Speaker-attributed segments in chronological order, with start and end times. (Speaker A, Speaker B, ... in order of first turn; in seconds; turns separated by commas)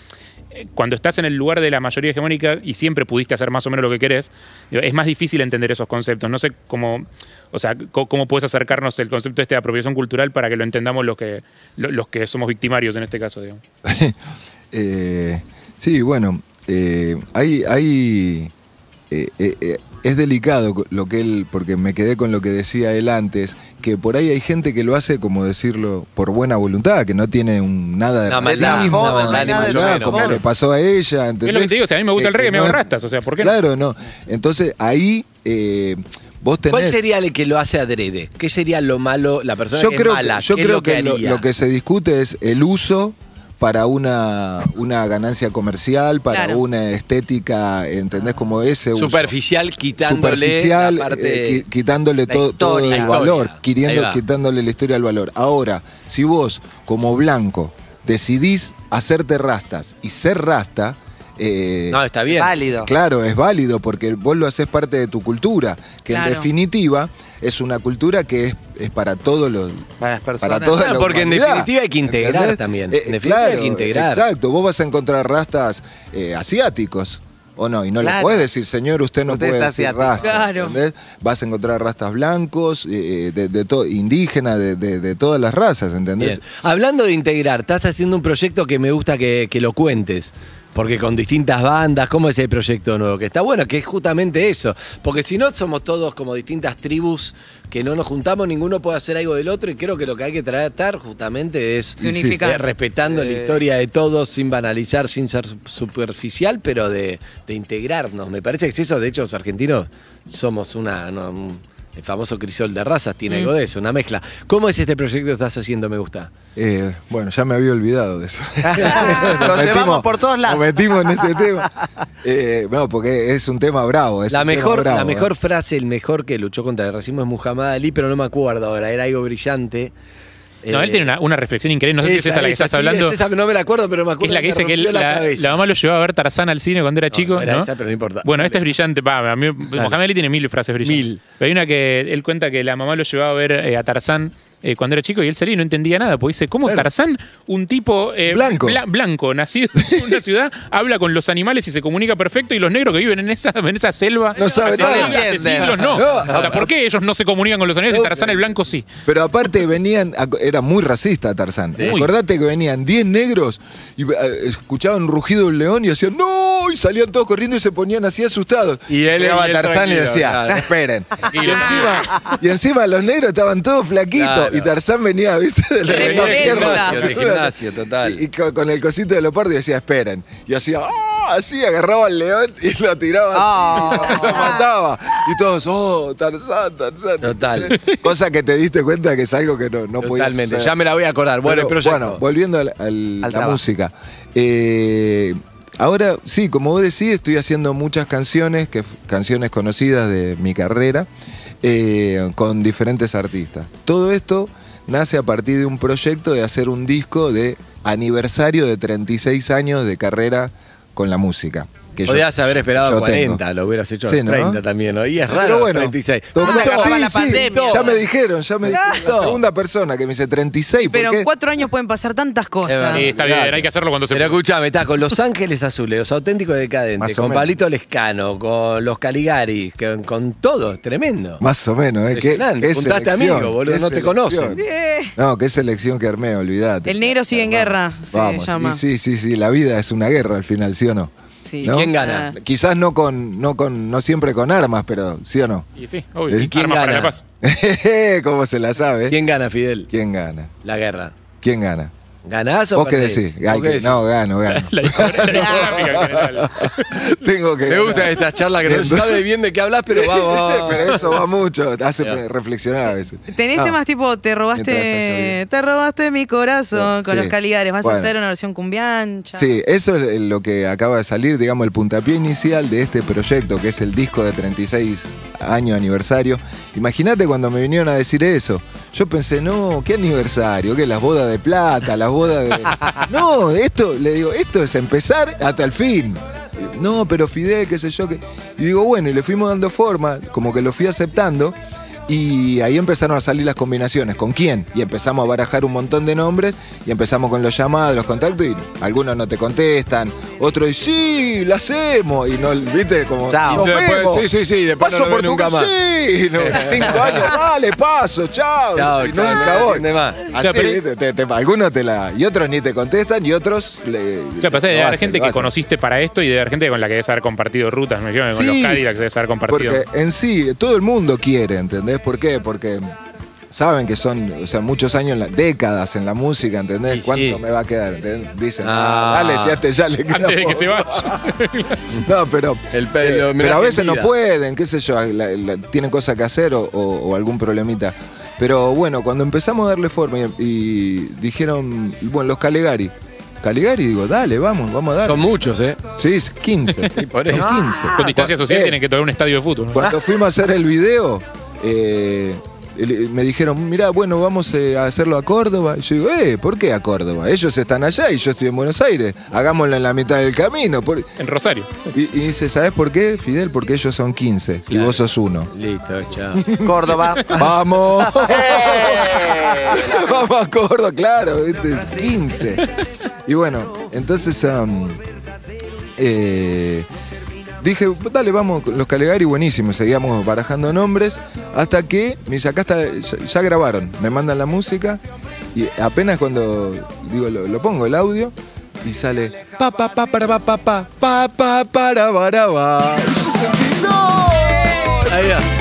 Speaker A: 0.5-13.6, Speaker B: 13.8-14.2, Speaker B: 14.7-18.5, Speaker B: 19.1-37.1, Speaker C: 28.3-30.4, Speaker D: 28.4-30.4, Speaker A: 30.1-30.4, Speaker A: 31.4-33.5, Speaker C: 36.7-41.5, Speaker B: 39.7-49.4, Speaker E: 46.3-46.6, Speaker C: 49.0-51.6, Speaker B: 50.0-62.0, Speaker D: 52.3-53.3, Speaker C: 52.8-54.2, Speaker C: 61.9-62.5, Speaker D: 62.3-62.9, Speaker B: 62.8-69.9, Speaker E: 66.1-66.5, Speaker D: 70.0-70.9, Speaker B: 70.4-86.4, Speaker C: 70.8-74.2, Speaker D: 78.0-78.5, Speaker D: 79.3-80.3, Speaker E: 80.2-80.8, Speaker C: 86.2-116.3, Speaker B: 102.0-102.4, Speaker E: 102.0-102.7, Speaker B: 116.6-125.3, Speaker D: 118.7-121.6, Speaker C: 124.3-129.9, Speaker C: 130.6-131.1, Speaker A: 130.7-133.2, Speaker C: 132.0-135.6, Speaker A: 134.2-137.7, Speaker C: 137.1-138.6, Speaker A: 138.2-158.9, Speaker C: 140.8-141.2, Speaker B: 148.3-148.8, Speaker B: 149.8-150.2, Speaker B: 154.3-155.3, Speaker D: 154.4-156.0, Speaker C: 155.5-156.6, Speaker B: 155.9-156.7, Speaker B: 157.9-158.4, Speaker B: 159.1-190.7, Speaker C: 161.8-162.1, Speaker A: 161.8-162.1, Speaker C: 168.9-170.7, Speaker C: 171.3-171.9, Speaker D: 171.4-172.3, Speaker C: 174.2-174.7, Speaker E: 175.9-177.1, Speaker C: 175.9-178.2, Speaker D: 183.3-184.6, Speaker C: 187.2-187.8, Speaker C: 190.0-192.2, Speaker B: 191.4-201.1, Speaker D: 193.2-193.6, Speaker B: 201.6-213.4, Speaker C: 212.1-217.9, Speaker B: 214.0-214.6, Speaker B: 215.3-221.3, Speaker D: 216.4-218.0, Speaker C: 218.7-219.4, Speaker E: 218.7-219.0, Speaker E: 220.8-223.1, Speaker C: 222.7-223.4, Speaker A: 222.9-224.4, Speaker B: 223.1-223.7, Speaker C: 224.1-231.4, Speaker B: 227.0-227.5, Speaker B: 231.4-234.6, Speaker C: 232.1-234.6, Speaker E: 234.5-235.2, Speaker B: 235.2-241.1, Speaker E: 236.9-238.8, Speaker E: 241.5-242.3, Speaker B: 241.6-245.7, Speaker C: 241.6-242.3, Speaker A: 245.8-247.2, Speaker C: 246.5-247.2, Speaker B: 247.4-249.2, Speaker C: 249.1-249.9, Speaker B: 249.9-250.5, Speaker C: 250.6-251.2, Speaker B: 251.4-251.9, Speaker C: 252.3-254.0, Speaker B: 252.8-259.3, Speaker A: 254.5-257.1, Speaker C: 257.7-261.1, Speaker B: 259.9-263.8, Speaker E: 263.3-269.5, Speaker B: 264.5-265.4, Speaker B: 266.7-268.1, Speaker B: 269.3-291.6, Speaker B: 292.1-304.3, Speaker D: 303.3-303.7, Speaker C: 303.5-305.7, Speaker B: 304.8-315.5, Speaker C: 306.4-307.4, Speaker C: 308.8-310.3, Speaker A: 310.4-310.8, Speaker A: 314.4-319.8, Speaker B: 318.3-318.9, Speaker B: 319.5-322.9, Speaker B: 323.5-331.4, Speaker C: 326.9-327.4, Speaker C: 328.6-329.6, Speaker A: 330.1-331.9, Speaker B: 331.9-348.8, Speaker C: 332.7-334.1, Speaker C: 345.0-345.8, Speaker C: 346.9-347.5, Speaker D: 347.3-348.0, Speaker A: 348.0-349.8, Speaker B: 349.7-361.1, Speaker D: 349.8-350.1, Speaker A: 361.2-361.9, Speaker B: 361.9-365.5, Speaker C: 364.7-366.5, Speaker B: 366.3-372.7, Speaker D: 366.6-370.1, Speaker B: 373.3-375.0, Speaker B: 376.0-376.9, Speaker B: 377.6-385.0, Speaker B: 385.5-395.4, Speaker C: 395.1-395.5